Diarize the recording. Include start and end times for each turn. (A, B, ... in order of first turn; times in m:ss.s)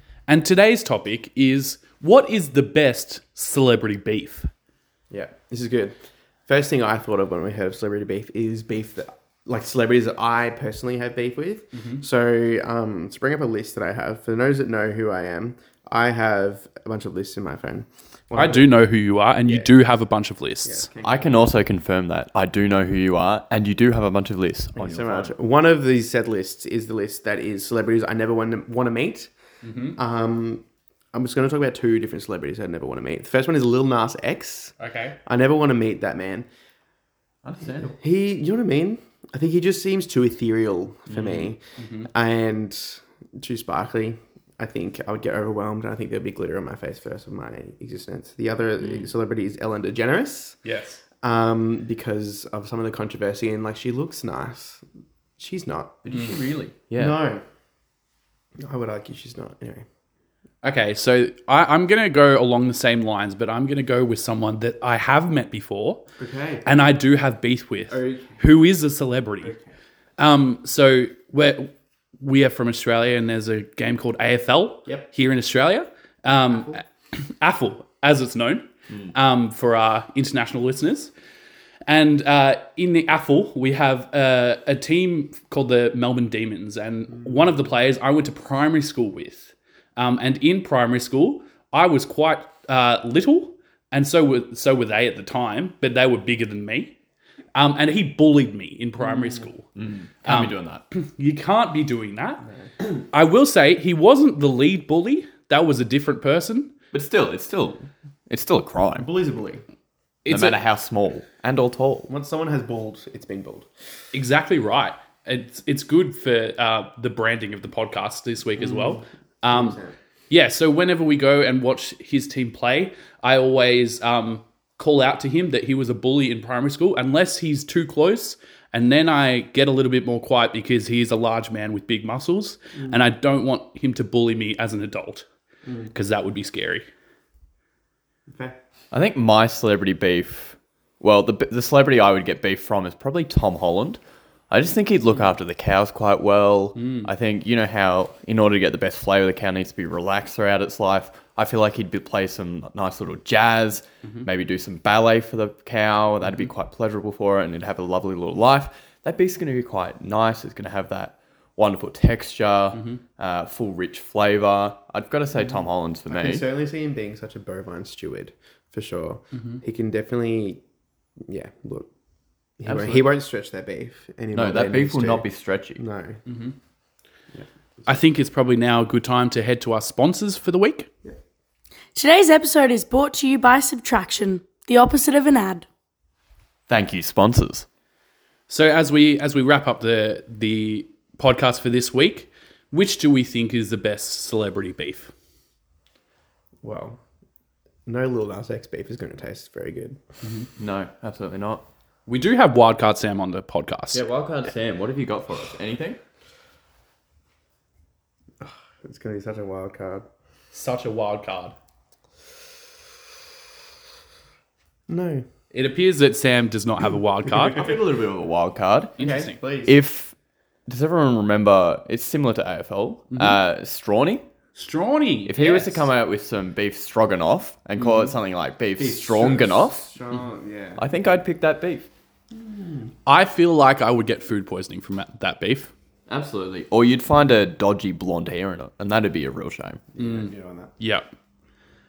0:00.3-0:04.5 A
0:05.1-0:06.0 B
0:06.5-0:18.8 B
0:11.8-0:12.0 A
0:18.4-0:20.9 A
0:19.5-0:19.7 B
0:20.6-0:21.6 B
0:21.0-0:25.3 C
0:24.8-0:29.3 B
0:29.6-0:30.0 A
0:30.0-0:34.8 B
0:34.8-0:35.2 A
0:35.3-0:36.5 B
0:37.4-0:37.9 C
0:37.8-0:50.6 B
0:41.1-0:41.5 C
0:41.8-0:42.1 A
0:50.6-0:51.0 A
0:51.2-0:54.8 B
0:55.4-0:56.0 B
0:56.0-0:57.2 C
0:57.0-0:57.4 B
0:58.6-0:59.8 B
1:00.6-1:06.0 A
1:06.2-1:06.6 B
1:06.6-1:09.5 A
1:07.9-1:08.4 B
1:09.4-1:09.7 B
1:10.2-1:21.1 A
1:16.5-1:16.8 B
1:21.9-1:37.0 A
1:37.6-1:39.7 A
1:39.8-1:40.8 C
1:40.2-1:42.4 A
1:43.1-1:46.7 A
1:46.9-1:49.1 C
1:49.0-1:49.6 B
1:50.2-1:50.6 A
1:50.3-1:52.1 C
1:52.1-1:53.7 B
1:54.1-1:59.8 A
1:58.6-2:00.0 B
2:00.3-2:15.3 A
2:15.6-2:15.9 B
2:15.9-2:16.9 A
2:18.3-2:18.6 B
2:18.9-2:24.0 C
2:24.5-2:46.5 C
2:26.8-2:27.1 A
2:42.7-2:43.0 A
2:46.1-2:50.6 B
2:49.4-2:49.6 A
2:51.3-2:51.9 B
2:52.6-2:56.2 B
2:52.7-2:53.0 C
2:54.3-2:55.8 C
2:56.3-2:56.6 A
2:57.3-2:58.0 B
2:57.9-3:00.9 A
3:02.0-3:05.7 D
3:06.7-3:07.7 C
3:08.5-3:15.1 A
3:16.6-3:17.0 B
3:17.9-3:20.0 B
3:20.6-3:21.6 C
3:22.1-3:24.0 A
3:23.9-3:26.0 C
3:28.4-3:30.1 B
3:30.5-3:31.6 A
3:34.9-3:35.3 B
3:35.5-3:37.7 A
3:37.4-3:39.0 C
3:39.0-3:39.4 A
3:39.0-3:39.8 B
3:39.7-3:40.2 C
3:40.7-3:44.2 C
3:43.1-3:43.4 A
3:44.6-3:45.9 A
3:45.3-3:50.0 C
3:48.8-3:51.2 B
3:50.8-3:51.9 C
3:52.3-3:52.9 B
3:53.1-3:55.7 A
3:56.1-3:59.8 C
3:59.9-4:00.7 B
4:00.0-4:01.1 A